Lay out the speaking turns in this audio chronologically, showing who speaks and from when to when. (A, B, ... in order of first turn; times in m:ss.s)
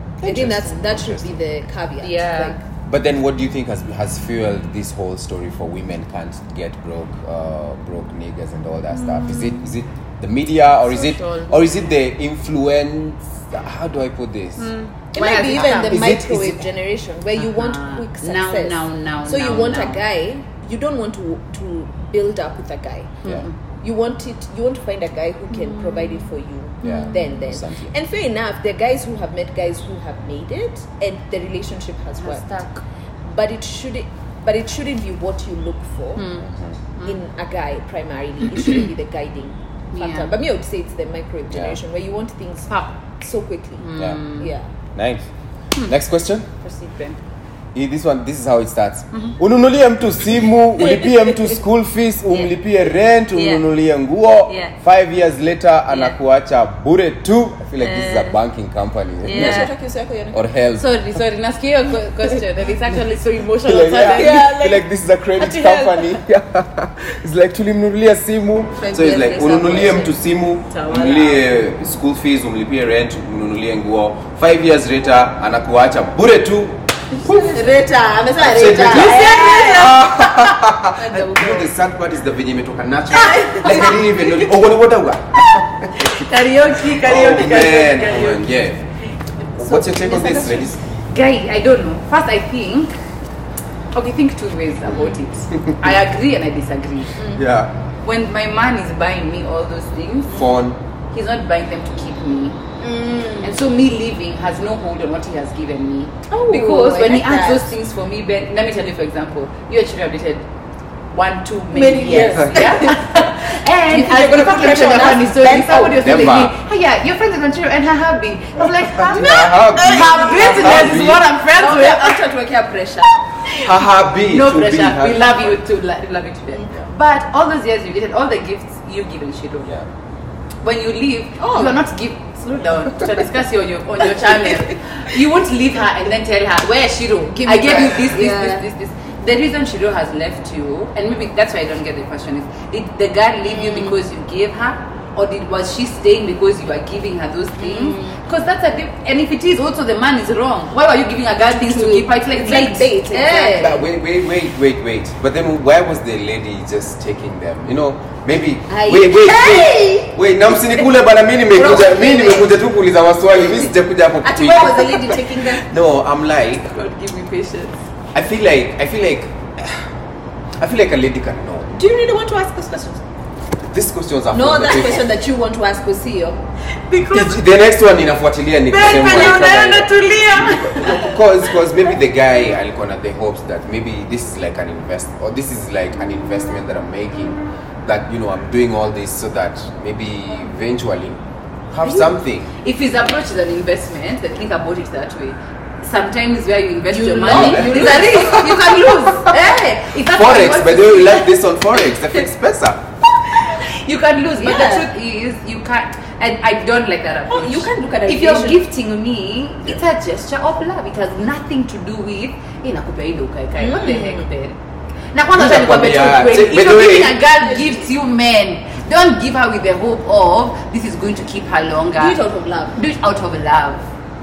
0:00.2-0:01.4 A
0:00.2-0:02.6 B
0:02.0-0:02.6 C
0:02.8-0:14.7 A
0:09.0-0:09.6 C
0:10.9-0:11.6 C
0:14.6-0:16.0 C
0:15.1-0:23.2 B
0:15.5-0:16.6 A
0:17.4-0:20.0 C
0:23.2-0:23.5 C
0:23.8-0:32.5 B
0:25.6-0:26.2 C
0:26.8-0:27.2 C
0:26.8-0:27.9 A
0:32.2-0:32.8 C
0:33.2-0:36.3 B
0:36.2-0:37.2 C
0:36.4-0:36.8 A
0:37.0-0:44.7 B
0:39.9-0:40.3 C
0:41.5-0:41.8 A
0:42.7-0:42.9 C
0:43.8-0:44.5 C
0:44.0-0:44.2 A
0:44.9-0:45.2 A
0:45.8-0:46.5 A
0:46.6-0:47.2 C
0:47.7-0:59.7 A
0:50.8-0:51.2 C
0:53.4-0:53.6 C
0:54.5-0:54.7 C
0:55.9-0:56.1 C
0:57.8-0:58.3 C
0:59.2-0:59.7 C
0:59.3-1:00.4 B
1:00.3-1:00.9 A
1:00.7-1:04.7 C
1:03.6-1:17.7 A
1:04.0-1:04.8 B
1:05.4-1:06.2 C
1:08.8-1:10.2 B
1:10.7-1:11.4 B
1:10.8-1:11.2 C
1:17.2-1:20.1 B
1:18.4-1:28.8 A
1:18.8-1:21.2 C
1:21.0-1:21.7 B
1:23.1-1:24.4 B
1:26.0-1:28.4 C
1:29.6-1:30.8 A
1:29.6-1:32.9 C
1:30.1-1:30.4 B
1:33.9-1:37.2 C
1:35.5-1:35.8 A
1:37.3-1:37.7 A
1:38.0-1:40.4 C
1:40.3-1:40.8 A
1:41.1-1:42.6 C
1:42.8-1:43.6 B
1:43.4-1:50.5 C
1:46.3-1:47.7 B
1:51.1-2:02.2 C
1:51.7-1:56.1 B
1:55.9-1:56.6 A
1:58.8-2:01.3 A
1:59.3-2:03.3 B
2:03.5-2:05.6 A
2:04.2-2:09.7 C
2:10.6-2:33.8 C
2:11.4-2:11.8 B
2:17.4-2:18.6 B
2:23.4-2:24.0 B
2:27.6-2:28.2 B
2:31.5-2:33.8 B
2:33.5-2:46.7 A
2:38.7-2:40.1 B
2:41.6-2:42.5 B
2:41.6-2:42.3 C
2:44.2-2:45.6 B
2:46.7-2:47.8 C
2:48.1-2:49.9 A
2:50.6-2:51.7 A
2:51.7-2:53.0 B
2:53.7-2:55.1 A
2:54.3-2:56.4 B
2:56.9-2:57.4 C
2:57.0-3:12.5 A
2:58.7-3:01.2 C
3:12.6-3:21.3 C
3:16.9-3:19.6 B
3:17.3-3:18.5 A
3:20.0-3:22.9 A
3:23.4-3:34.6 C
3:24.4-3:24.9 B
3:27.3-3:28.6 B
3:33.6-3:34.2 B
3:35.1-3:42.2 C
3:35.3-3:37.2 A
3:37.4-3:37.9 B
3:42.0-3:42.8 B
3:42.7-3:43.9 C